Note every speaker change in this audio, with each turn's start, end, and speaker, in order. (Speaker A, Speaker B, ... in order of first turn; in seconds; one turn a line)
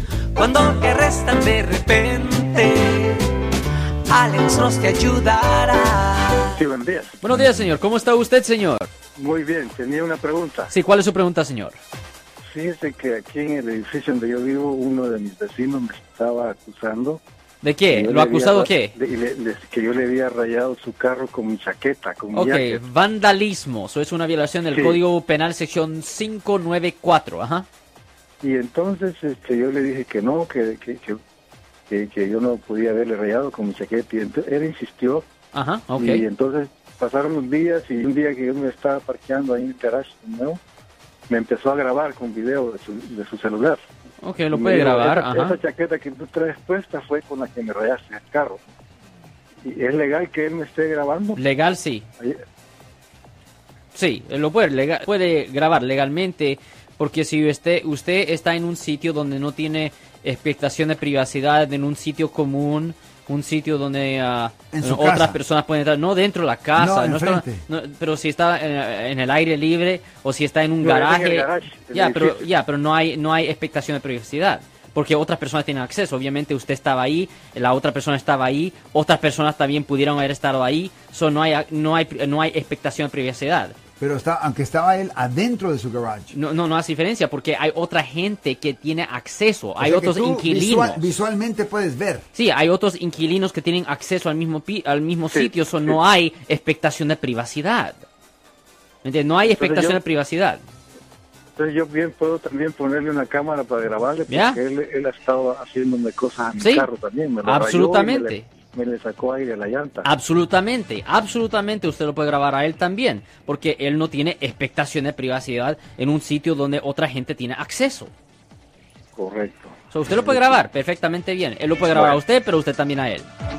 Speaker A: 0.3-3.3
Speaker A: 4.1-6.5
Speaker B: 6.5-7.2
Speaker C: 7.2-8.9
Speaker B: 9.2-10.7
Speaker C: 10.7-11.8
Speaker B: 12.5-17.2
Speaker C: 17.6-18.9
Speaker B: 17.9-22.8
Speaker C: 22.3-27.7
Speaker B: 24.7-25.0
Speaker B: 28.4-31.2
Speaker B: 31.9-35.3
Speaker C: 35.5-36.2
Speaker B: 36.0-40.6
Speaker B: 41.3-43.8
Speaker C: 44.2-45.6
Speaker B: 44.5-48.6
Speaker B: 49.6-51.4
Speaker C: 51.4-52.0
Speaker C: 53.9-83.8
Speaker D: 64.7-65.4
Speaker D: 66.7-67.6
Speaker B: 70.8-72.5
Speaker D: 84.0-86.3
Speaker C: 86.3-91.1
Speaker D: 89.8-92.2
Speaker C: 92.3-98.0
Speaker B: 95.3-96.0
Speaker C: 99.0-100.6
Speaker B: 99.4-100.0
Speaker B: 101.5-110.1
Speaker C: 104.3-104.6
Speaker C: 106.6-106.9
Speaker C: 107.4-108.5
Speaker C: 110.0-118.1
Speaker B: 119.2-120.6
Speaker C: 119.9-123.3
Speaker B: 121.9-122.2